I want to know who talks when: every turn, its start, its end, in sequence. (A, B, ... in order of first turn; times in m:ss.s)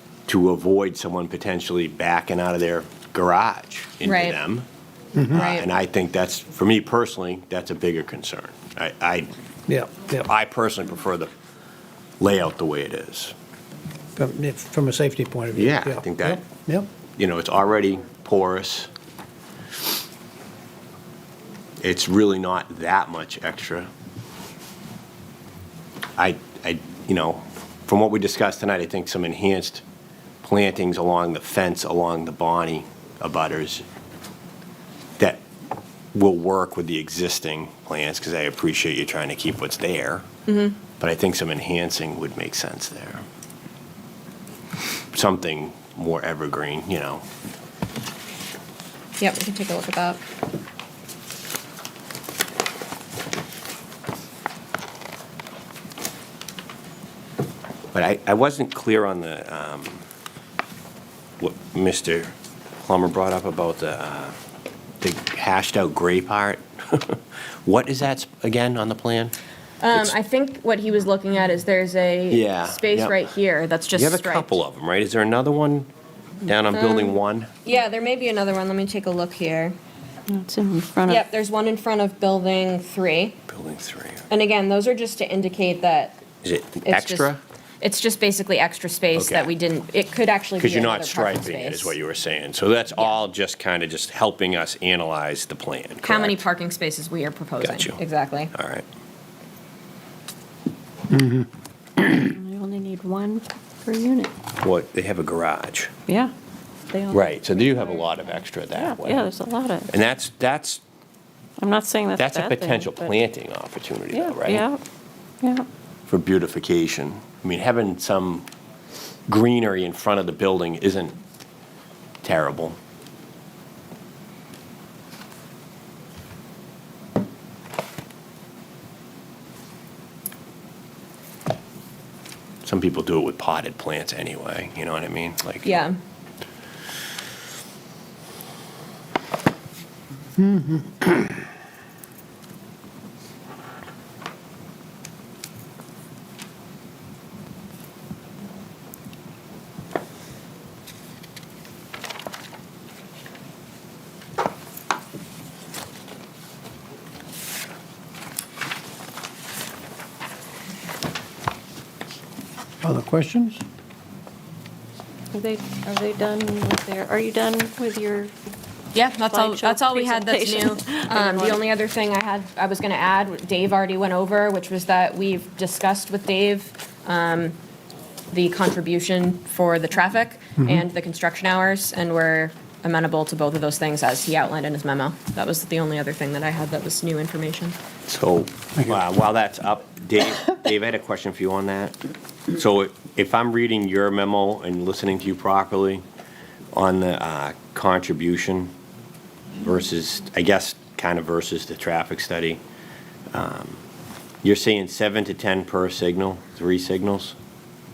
0:00.3-0:04.7 A
0:04.0-0:04.4 B
0:05.2-0:05.5 C
0:05.3-0:09.3 A
0:05.4-0:05.7 B
0:09.7-0:10.3 C
0:10.1-0:11.3 A
0:12.2-0:13.3 A
0:14.2-0:16.9 C
0:15.5-0:16.4 A
0:17.2-0:18.9 A
0:21.8-0:23.9 A
0:26.2-0:29.8 A
0:30.4-0:33.8 A
0:36.1-0:40.3 A
0:40.5-0:40.8 B
0:41.0-0:43.2 A
0:45.1-0:47.3 A
0:49.2-0:50.2 B
0:57.9-1:00.0 A
1:01.4-1:04.4 A
1:05.0-1:09.4 A
1:09.8-1:14.6 B
1:12.3-1:13.2 A
1:14.0-1:15.9 A
1:16.4-1:17.5 A
1:16.7-1:19.8 B
1:20.3-1:21.2 D
1:21.1-1:23.4 B
1:23.5-1:24.3 A
1:24.3-1:26.2 B
1:26.4-1:27.4 A
1:26.8-1:32.0 B
1:29.2-1:29.5 A
1:30.6-1:36.4 A
1:36.0-1:38.5 B
1:37.6-1:38.0 A
1:38.5-1:38.8 A
1:41.1-1:41.4 C
1:42.0-1:44.3 D
1:44.6-1:45.9 A
1:46.1-1:46.3 D
1:46.9-1:48.2 D
1:47.1-1:49.3 A
1:48.7-1:49.9 D
1:49.9-1:50.8 A
1:51.6-1:53.1 D
1:52.2-1:54.6 A
1:54.1-1:54.8 D
1:55.4-1:55.7 D
1:56.1-1:58.5 A
1:59.3-2:01.2 A
2:02.2-2:02.8 A
2:12.6-2:15.8 A
2:15.6-2:15.9 B
2:20.5-2:20.8 C
2:42.8-2:43.6 C
2:45.3-2:48.3 D
2:48.9-2:57.6 B
2:49.2-2:51.6 D
2:58.3-3:07.8 B
3:08.1-3:12.0 A
3:12.5-3:16.0 A
3:16.7-3:18.7 A
3:19.6-3:22.6 A
3:23.3-3:23.8 A
3:24.4-3:27.4 A